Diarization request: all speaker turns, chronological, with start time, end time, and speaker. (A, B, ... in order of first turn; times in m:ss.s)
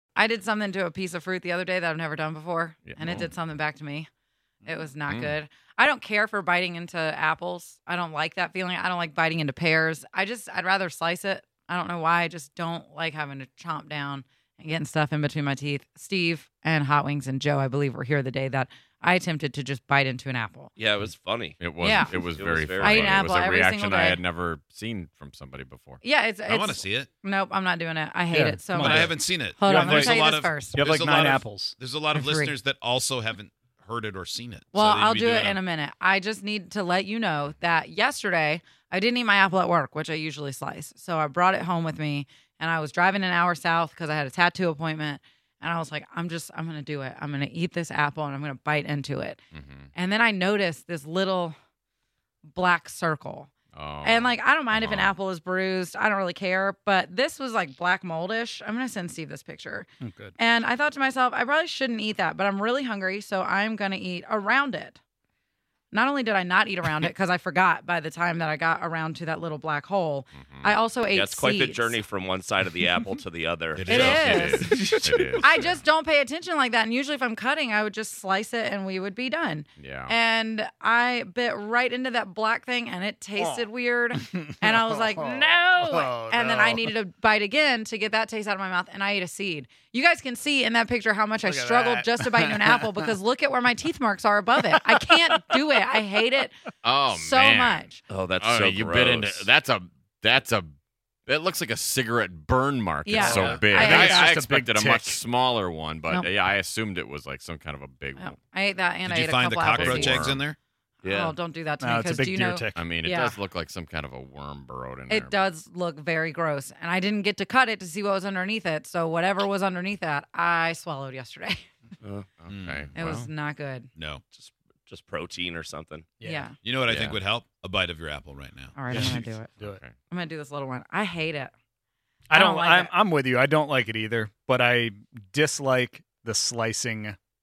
0:00.2-0:04.1 A
0:02.8-0:03.3 B
0:04.6-0:20.7 A
0:05.1-0:05.3 B
0:20.8-0:23.2 C
0:21.6-0:26.0 B
0:21.8-0:22.1 A
0:22.8-0:24.2 A
0:26.0-0:30.8 A
0:26.5-0:27.1 D
0:28.3-0:31.8 E
0:28.8-0:35.6 D
0:32.1-0:32.5 A
0:34.7-0:49.4 A
0:49.5-0:49.9 B
0:49.9-0:51.6 A
0:52.5-0:53.5 A
0:53.7-0:55.2 B
0:54.0-1:05.0 A
1:00.0-1:00.3 E
1:05.9-1:12.0 A
1:10.4-1:10.7 B
1:11.1-1:14.7 C
1:13.7-1:15.8 B
1:13.9-1:14.8 A
1:14.4-1:15.4 E
1:15.4-1:36.6 A
1:19.8-1:20.1 B
1:23.4-1:26.9 E
1:31.4-1:33.1 E
1:34.7-1:35.6 E
1:36.8-1:37.9 B
1:37.1-1:38.0 A
1:38.1-1:39.5 C
1:38.4-1:40.7 B
1:41.3-1:48.4 B
1:43.0-1:44.3 A
1:43.2-1:45.2 E
1:48.2-1:50.2 A
1:49.0-1:50.6 D
1:49.7-1:50.4 B
1:51.0-1:53.4 A
1:51.0-1:51.3 C
1:51.8-1:52.9 E
1:52.7-1:55.4 B
1:55.1-2:01.6 A
2:02.0-2:02.3 C
2:02.4-2:03.3 B
2:02.5-2:03.2 D
2:02.9-2:03.9 A
2:04.0-2:04.2 D
2:04.3-2:06.1 C
2:06.2-2:06.5 E
2:06.2-2:06.6 A
2:06.6-2:09.4 D
2:06.8-2:07.2 B
2:08.7-2:09.5 A
2:08.9-2:09.8 E
2:09.5-2:09.9 B
2:10.1-2:11.5 A
2:12.3-2:17.2 E
2:12.3-2:12.9 A